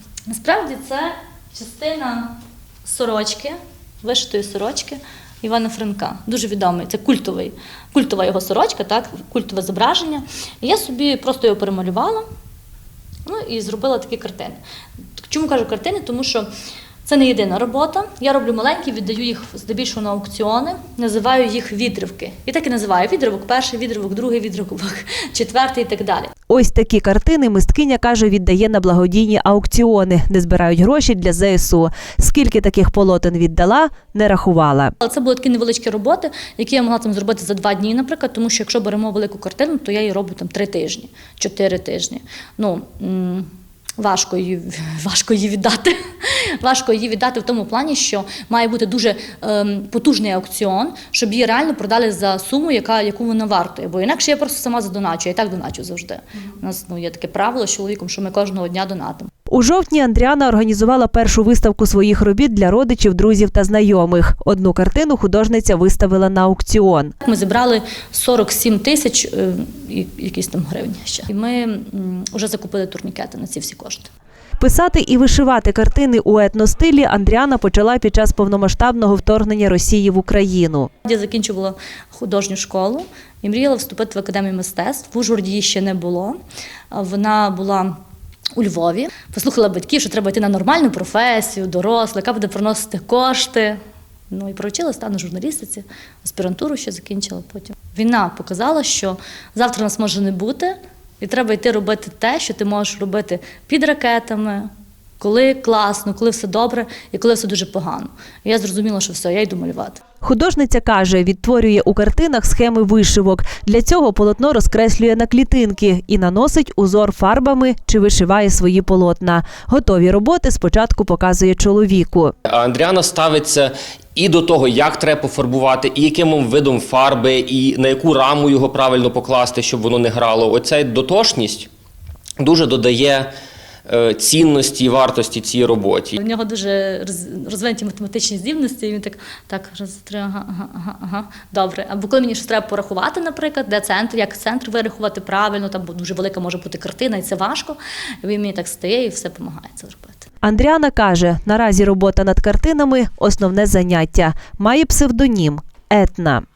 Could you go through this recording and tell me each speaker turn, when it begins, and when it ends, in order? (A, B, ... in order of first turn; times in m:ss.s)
0:00.3-0:02.3 A
0:02.8-0:12.2 A
0:13.2-0:14.6 A
0:15.2-0:16.5 A
0:17.0-0:26.3 A
0:26.5-0:34.9 B
0:35.0-0:43.5 A
0:44.0-0:59.3 A
0:59.5-1:07.1 B
1:07.2-1:14.1 A
1:14.6-1:20.9 B
1:21.0-1:26.4 A
1:26.9-1:28.0 A
1:28.5-1:33.8 A
1:34.3-1:44.7 A
1:45.2-1:50.0 A
1:50.2-2:02.3 B
2:02.4-2:11.7 C
2:12.4-2:13.3 C
2:13.9-2:16.2 C
2:16.2-2:30.2 A
2:30.4-2:36.4 B